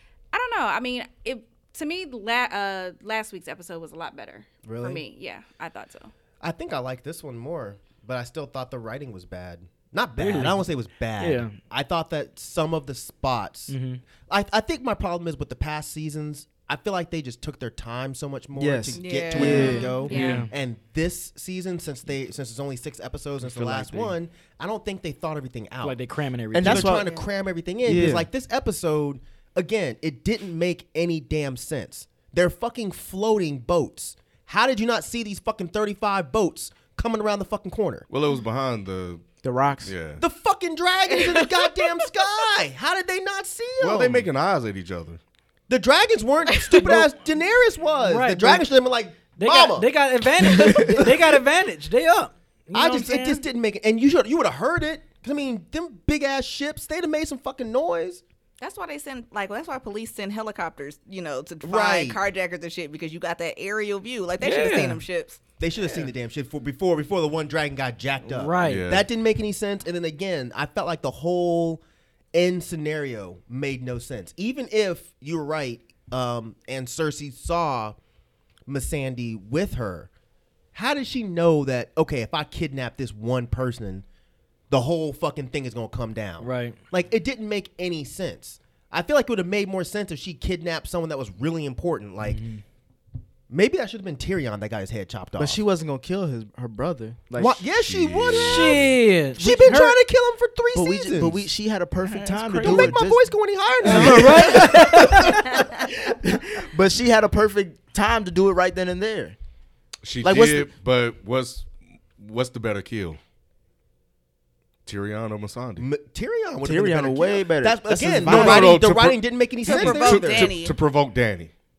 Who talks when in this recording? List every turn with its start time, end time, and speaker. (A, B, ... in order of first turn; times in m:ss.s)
0:00.3-0:06.1 A
0:04.6-0:05.0 B
0:06.4-0:26.0 B
0:10.2-0:11.6 C
0:13.7-0:14.0 C
0:18.5-0:19.9 D
0:19.0-0:20.3 E
0:19.4-0:20.5 A
0:19.5-0:20.5 C
0:23.5-0:24.0 D
0:23.5-0:24.1 C
0:25.8-0:27.0 C
0:26.5-0:27.1 D
0:26.6-0:38.1 B
0:27.8-0:28.3 D
0:38.1-0:39.3 F
0:39.4-0:39.9 D
0:39.8-0:40.2 F
0:40.2-0:44.3 B
0:41.2-0:41.5 E
0:43.8-0:45.2 F
0:45.7-0:49.9 B
0:46.5-0:47.0 E
0:48.0-0:48.7 C
0:49.4-0:53.4 C
0:50.4-0:51.2 B
0:50.6-0:50.9 D
0:52.7-0:58.2 B
0:58.6-1:06.1 E
1:01.6-1:02.2 B
1:04.4-1:05.0 C
1:05.6-1:11.8 B
1:08.3-1:08.9 C
1:08.6-1:09.1 F
1:12.3-1:18.0 B
1:18.7-1:20.1 B
1:20.7-1:24.0 B
1:24.7-1:32.4 B
1:26.4-1:26.8 C
1:32.3-1:32.6 C
1:33.5-1:35.6 B
1:35.4-1:37.7 D
1:37.4-1:41.5 B
1:37.8-1:39.0 F
1:38.3-1:40.0 C
1:39.4-1:39.8 D
1:40.7-1:49.4 D
1:42.0-1:43.0 C
1:42.6-1:45.6 B
1:43.8-1:45.6 C
1:50.0-1:53.2 F
1:50.2-1:50.7 D
1:54.8-1:55.9 F
1:55.8-2:00.6 B
1:56.6-1:58.8 D
1:58.2-2:01.5 F
1:59.6-2:00.7 E